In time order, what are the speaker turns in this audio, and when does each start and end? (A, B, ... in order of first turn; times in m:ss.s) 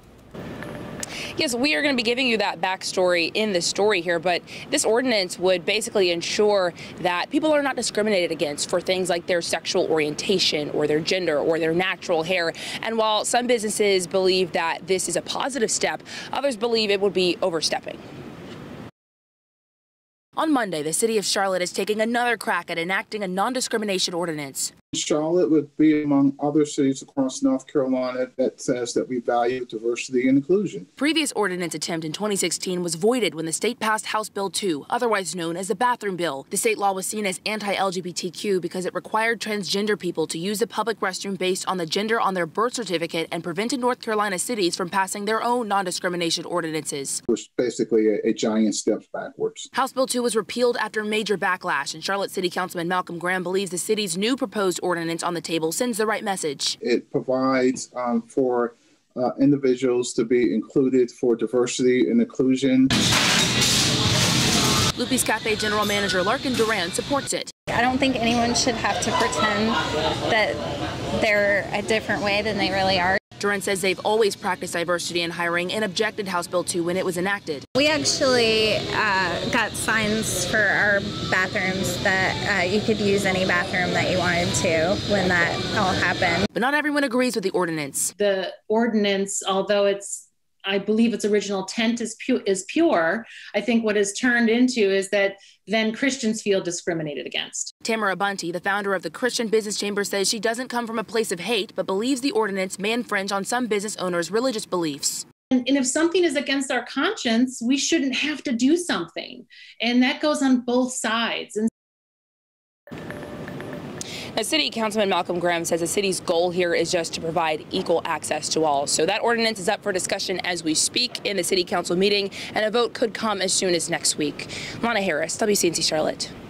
0:01.3-0:18.0 A
0:20.4-0:24.7 A
0:24.9-0:30.9 B
0:31.0-0:47.2 A
0:47.3-0:49.7 B
0:49.7-0:56.8 A
0:56.8-1:02.9 B
1:05.0-1:07.5 A
1:07.7-1:10.6 C
1:11.1-1:13.2 C
1:13.4-1:17.6 A
1:17.8-1:26.5 C
1:26.5-1:28.1 A
1:28.2-1:37.6 D
1:37.8-1:45.2 A
1:45.5-1:51.6 D
1:54.3-2:06.3 A